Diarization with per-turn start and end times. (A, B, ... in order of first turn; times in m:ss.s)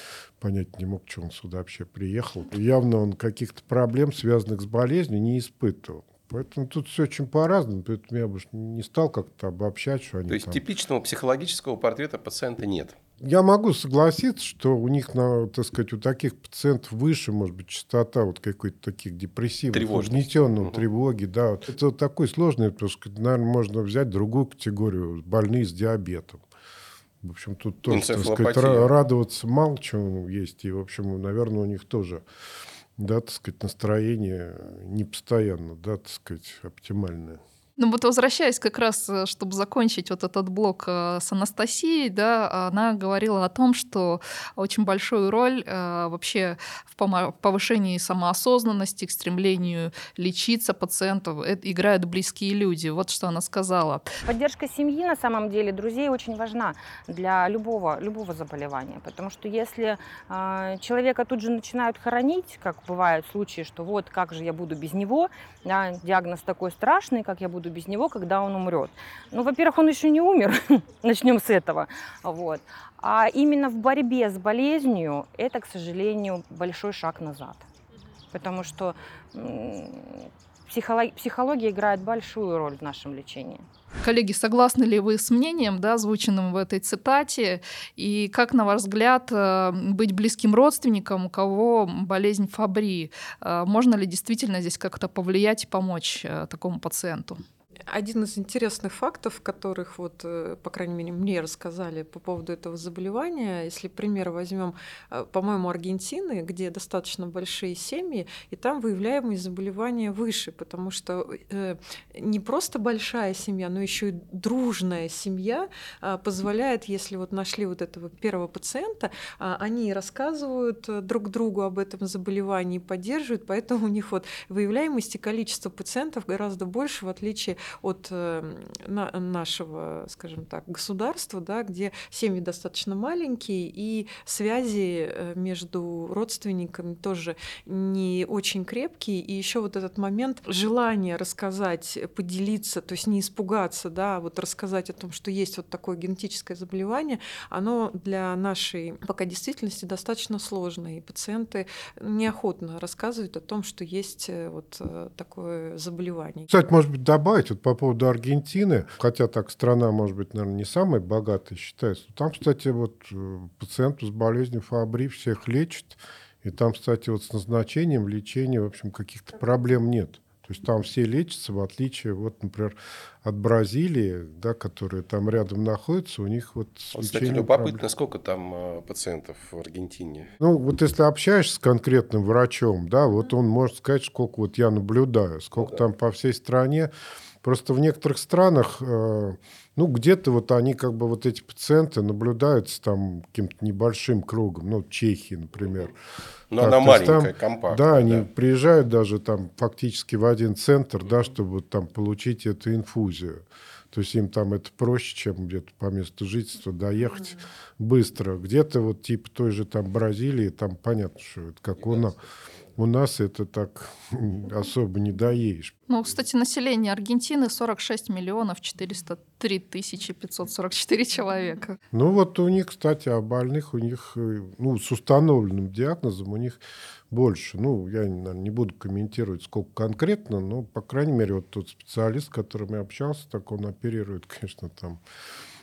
0:00.4-0:10.6 A
0:10.3-0:13.0 B
0:13.2-0:26.4 A
0:19.7-0:20.8 B
0:27.2-0:32.2 A
0:27.9-0:28.9 B
0:33.0-0:37.4 A
0:37.8-0:54.1 C
0:54.2-1:17.6 D
1:18.3-1:23.6 D
1:24.0-1:37.4 C
1:37.9-2:36.5 E
2:36.5-2:57.8 A
2:56.9-3:00.3 B
3:00.4-3:06.9 A
3:07.4-3:15.9 A
3:16.5-3:18.2 B
3:16.6-3:32.2 A
3:32.8-3:35.8 A
3:35.9-3:41.8 C
3:41.9-3:46.6 A
3:47.1-3:55.0 A